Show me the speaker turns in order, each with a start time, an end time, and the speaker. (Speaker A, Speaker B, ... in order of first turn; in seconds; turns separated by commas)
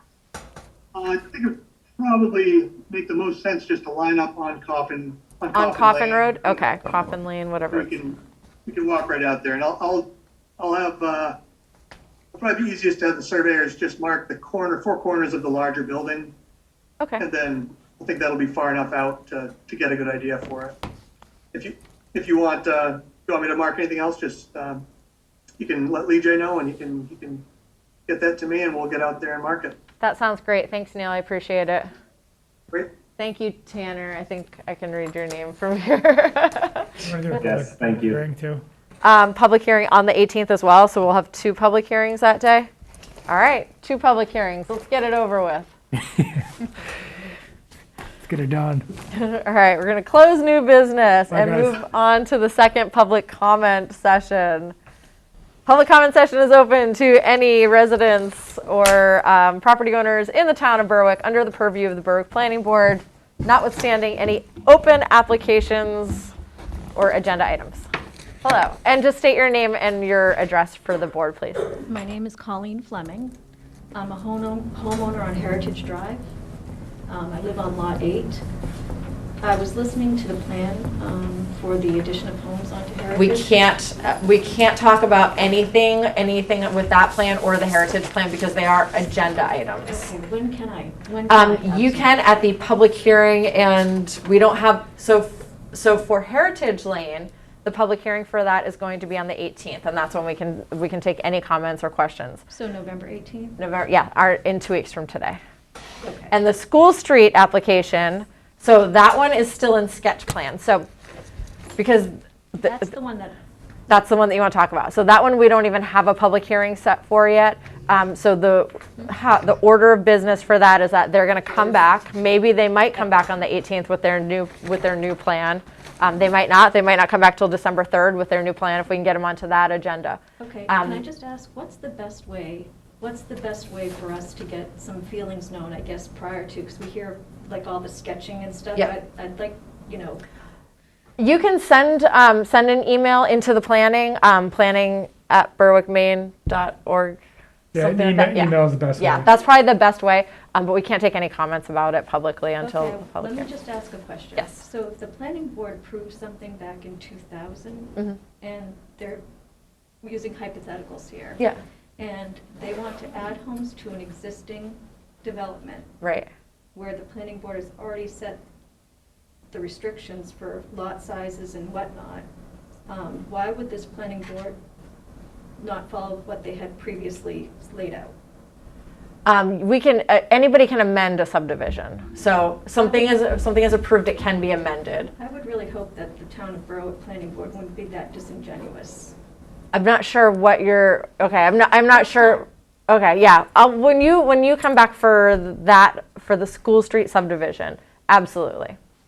Speaker A: 0.9-6.8, Speaker B: 5.5-8.0, Speaker A: 7.7-11.4, Speaker A: 12.3-16.3, Speaker A: 17.2-20.8, Speaker A: 21.5-24.8, Speaker A: 25.6-27.4, Speaker A: 28.1-29.8, Speaker B: 30.0-31.9, Speaker B: 33.2-37.0, Speaker C: 37.0-38.6, Speaker A: 37.3-38.2, Speaker B: 39.0-42.7, Speaker B: 43.3-45.7, Speaker C: 46.2-46.4, Speaker C: 48.2-48.9, Speaker B: 49.1-54.7, Speaker C: 51.3-51.7, Speaker B: 55.7-66.3, Speaker B: 67.0-67.9, Speaker B: 68.4-71.7, Speaker D: 71.8-73.3, Speaker D: 73.9-76.3, Speaker D: 77.1-78.4, Speaker D: 79.4-83.5, Speaker B: 83.1-90.1, Speaker D: 89.8-92.2, Speaker B: 91.3-102.4, Speaker D: 102.5-103.6, Speaker B: 103.6-105.4, Speaker D: 106.0-106.3, Speaker B: 106.3-110.9, Speaker B: 111.8-112.9, Speaker D: 112.6-113.4, Speaker B: 113.9-131.0, Speaker D: 130.4-140.2, Speaker B: 141.2-147.2, Speaker C: 147.7-149.3, Speaker B: 147.8-153.5, Speaker D: 152.6-159.2, Speaker D: 160.0-161.4, Speaker D: 162.0-165.9, Speaker B: 166.0-166.3, Speaker D: 166.7-168.4, Speaker D: 169.5-172.2, Speaker D: 172.9-174.6, Speaker D: 175.6-178.1, Speaker B: 179.2-185.1, Speaker D: 182.8-183.2, Speaker D: 185.2-189.2, Speaker B: 189.7-198.8, Speaker D: 192.0-192.4